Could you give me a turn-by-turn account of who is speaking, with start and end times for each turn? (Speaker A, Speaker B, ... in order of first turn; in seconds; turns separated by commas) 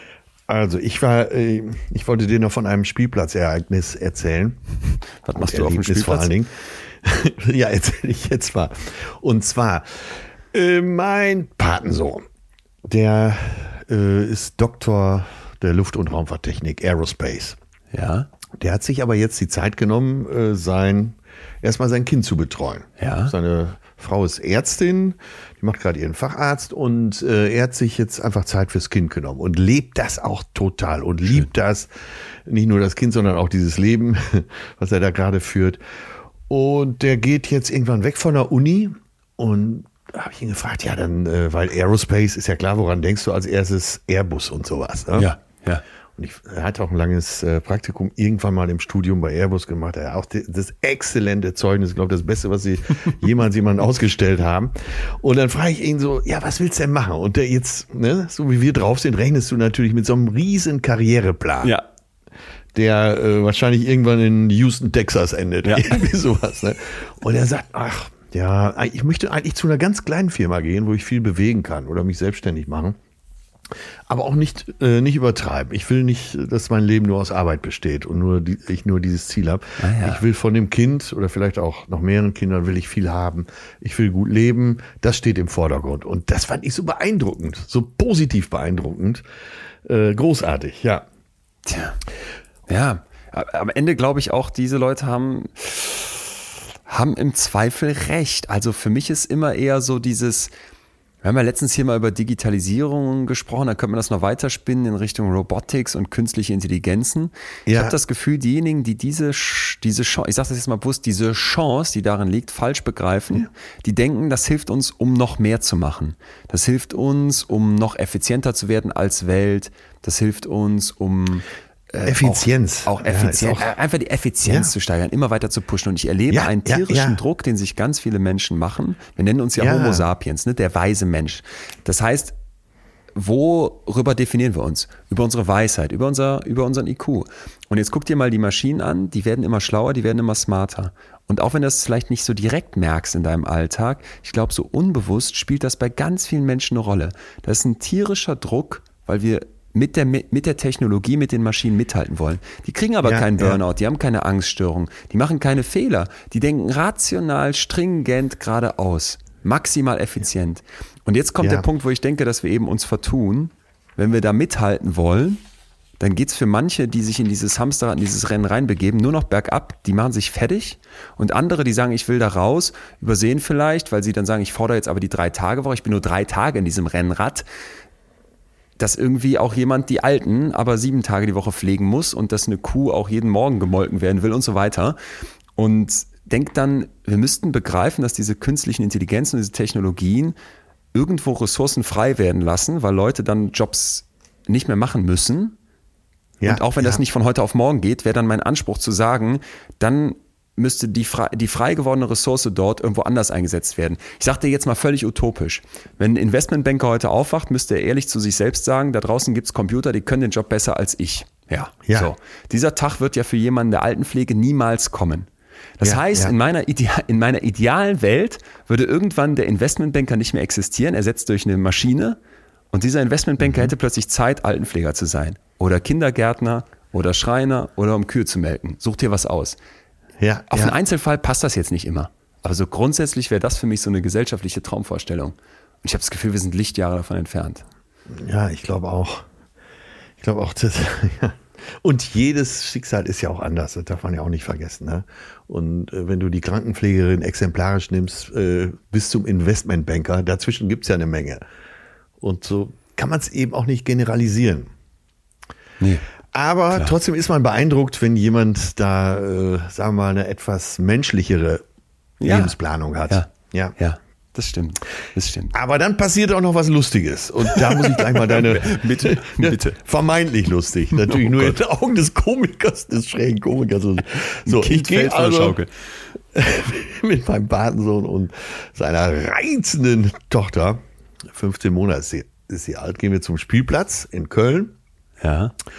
Speaker A: 0.5-4.6, Speaker B: 5.2-6.3, Speaker A: 5.3-12.2, Speaker A: 12.8-17.6, Speaker B: 17.9-18.3, Speaker A: 18.6-31.9, Speaker B: 23.0-23.3, Speaker A: 32.5-35.8, Speaker A: 36.5-45.3, Speaker B: 45.1-45.8, Speaker A: 46.2-61.7, Speaker A: 62.7-73.0, Speaker B: 65.6-66.0, Speaker A: 74.1-89.2, Speaker B: 79.8-80.2, Speaker A: 89.8-91.0, Speaker B: 91.7-92.0, Speaker B: 92.7-96.2, Speaker B: 96.9-100.5, Speaker B: 101.2-132.3, Speaker A: 107.7-108.0, Speaker A: 122.0-123.7, Speaker A: 124.4-124.7, Speaker A: 126.3-127.2, Speaker A: 129.6-130.0, Speaker B: 133.1-165.4, Speaker A: 153.0-153.6, Speaker B: 166.0-177.4, Speaker B: 178.8-185.0, Speaker B: 185.6-190.3, Speaker B: 190.9-195.6, Speaker A: 196.4-197.0, Speaker B: 196.4-215.3, Speaker A: 211.8-212.1, Speaker B: 215.8-222.2, Speaker A: 215.8-216.3, Speaker B: 222.7-229.6, Speaker A: 223.4-223.7, Speaker A: 230.2-230.8, Speaker B: 230.5-237.6, Speaker A: 238.1-239.2, Speaker A: 240.2-251.4, Speaker A: 252.2-254.7, Speaker B: 255.8-256.0, Speaker A: 256.3-261.6, Speaker B: 262.2-262.5, Speaker A: 262.2-263.7, Speaker B: 263.1-265.5, Speaker A: 265.5-275.6, Speaker B: 267.5-269.8, Speaker B: 271.1-271.5, Speaker B: 274.4-275.7, Speaker A: 276.3-284.7, Speaker B: 285.2-285.5